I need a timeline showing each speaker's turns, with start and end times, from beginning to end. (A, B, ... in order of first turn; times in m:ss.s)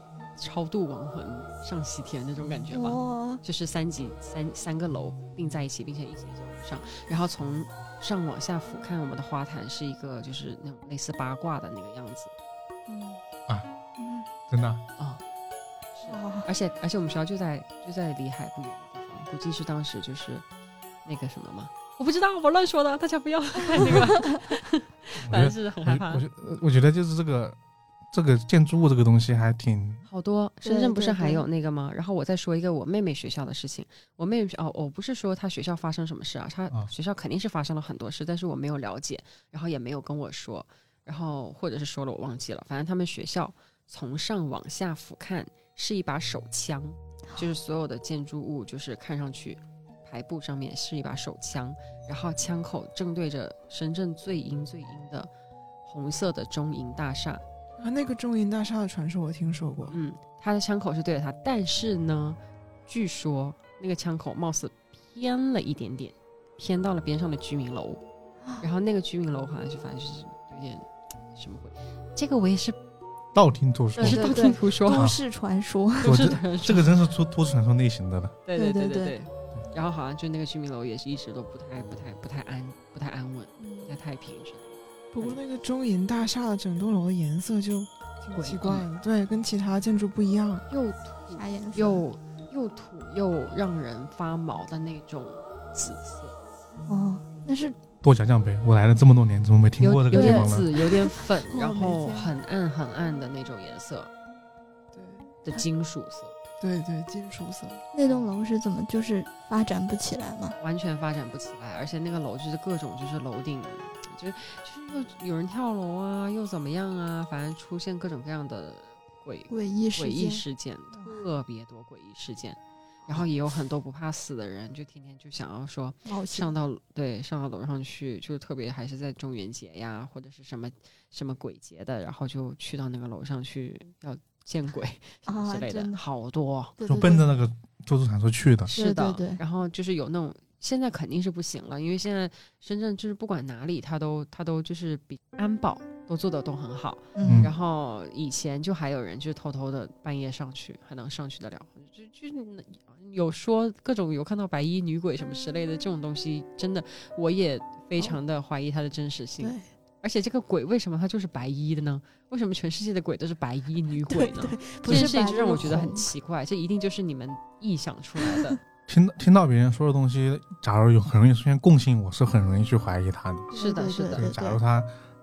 0:00.4-0:12.3 A
0:02.7-0:03.4 B
0:12.9-0:13.2 B
0:14.0-0:14.2 B
0:14.5-0:14.8 C
0:15.9-0:20.4 A
0:16.0-0:16.4 B
0:21.0-0:26.2 A
0:25.2-0:27.6 C
0:28.1-0:30.0 C
0:30.1-0:55.3 A
0:30.6-0:31.4 B
0:55.8-0:57.4 A
0:57.8-1:00.0 D
0:59.9-1:08.0 A
1:08.6-1:12.8 A
1:13.3-1:15.2 C
1:14.0-1:15.1 A
1:14.0-1:16.2 B
1:16.0-1:16.9 A
1:16.0-1:18.4 C
1:18.4-1:25.4 A
1:18.6-1:19.1 B
1:23.6-1:23.9 B
1:25.1-1:30.6 D
1:28.3-1:28.9 A
1:30.7-1:36.4 A
1:31.3-1:32.0 B
1:36.8-1:37.8 B
1:38.0-1:40.7 C
1:39.8-1:44.1 A
1:40.1-1:42.3 B
1:44.9-1:45.3 D
1:45.4-1:46.3 A
1:46.6-1:47.8 D
1:47.9-1:50.6 B
1:48.0-1:48.3 A
1:50.6-2:16.7 A
1:59.5-2:00.4 B
2:06.0-2:06.5 B
2:15.3-2:16.0 B
2:16.8-2:17.2 B
2:16.8-2:18.7 C
2:18.7-2:48.6 A
2:18.7-2:19.4 B
2:27.1-2:27.5 B
2:27.2-2:27.5 C
2:39.4-2:39.6 B
2:44.1-2:46.1 B
2:44.9-2:45.1 D
2:48.9-2:53.5 C
2:53.5-2:54.6 B
2:53.5-2:54.3 A
2:54.1-2:54.9 C